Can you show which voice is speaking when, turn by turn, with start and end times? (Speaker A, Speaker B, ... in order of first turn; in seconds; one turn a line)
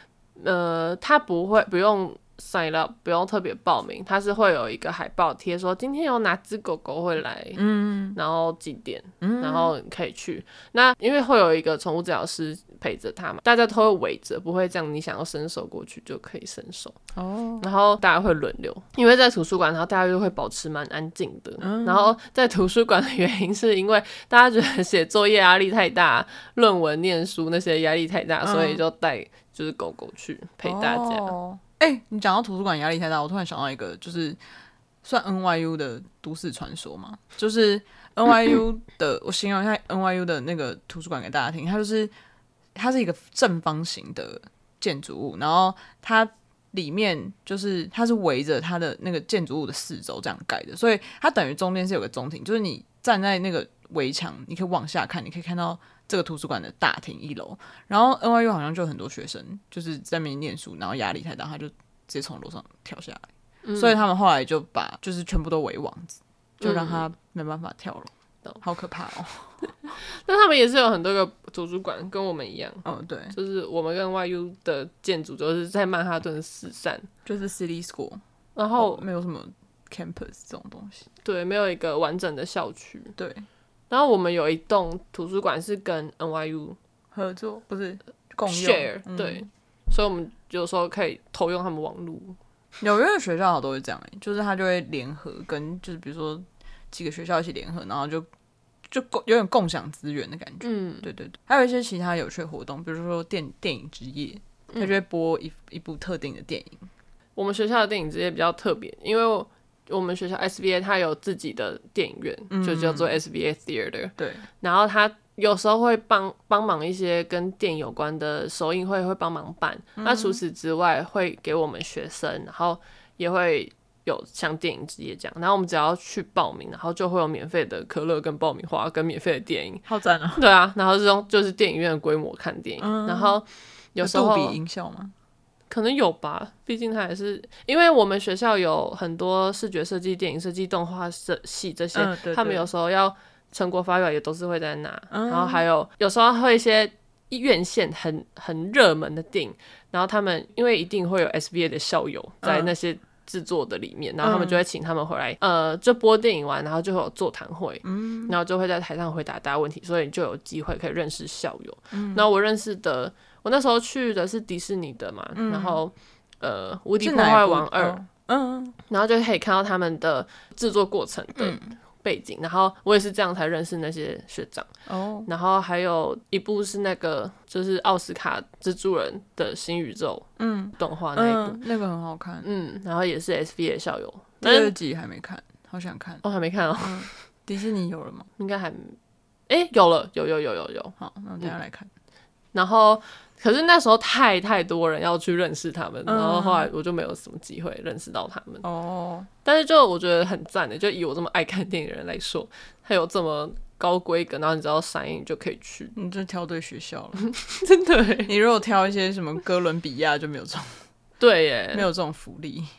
Speaker A: 0.4-17.0
Speaker B: 7.5-8.2
Speaker B: 9.2-9.7
Speaker B: 17.1-17.6
Speaker A: 17.6-31.3
Speaker B: 21.6-22.1
Speaker B: 28.4-28.8
Speaker B: 30.6-34.4
Speaker B: 35.0-42.1
Speaker B: 42.8-69.5
Speaker A: 63.6-64.0
Speaker A: 66.6-67.0
Speaker A: 70.2-77.1
Speaker B: 72.8-73.4
Speaker B: 77.2-78.2
Speaker A: 78.6-79.0
Speaker B: 78.8-81.1
Speaker A: 81.2-83.2
Speaker B: 83.2-83.5
Speaker A: 83.9-86.8
Speaker B: 87.1-89.5
Speaker A: 88.5-92.4
Speaker B: 92.8-98.3
Speaker B: 98.9-106.9
Speaker A: 100.6-101.1
Speaker A: 104.7-105.0
Speaker A: 107.4-129.8
Speaker B: 112.5-113.2
Speaker B: 114.2-114.5
Speaker B: 120.0-120.4
Speaker B: 129.9-130.4
Speaker A: 130.3-134.6
Speaker B: 132.8-133.4
Speaker B: 134.0-135.1
Speaker A: 135.7-168.0
Speaker B: 141.9-142.7
Speaker B: 145.1-145.6
Speaker B: 152.4-152.7
Speaker B: 154.2-154.6
Speaker B: 157.8-158.4
Speaker B: 161.9-162.3
Speaker B: 165.4-165.8
Speaker B: 167.0-168.8
Speaker A: 168.9-174.7
Speaker B: 171.4-171.7
Speaker B: 174.9-175.3
Speaker A: 175.3-181.6
Speaker B: 180.4-182.5
Speaker A: 182.4-184.8
Speaker B: 184.4-186.2
Speaker A: 186.2-187.2
Speaker B: 186.8-188.3
Speaker A: 188.4-189.0
Speaker A: 189.5-191.0
Speaker B: 191.0-191.9
Speaker A: 192.5-198.7
Speaker B: 196.1-196.7
Speaker B: 198.6-199.3
Speaker A: 199.4-205.9
Speaker B: 206.0-207.3
Speaker A: 207.3-208.3
Speaker B: 208.3-210.8
Speaker A: 211.2-211.9
Speaker B: 211.7-212.7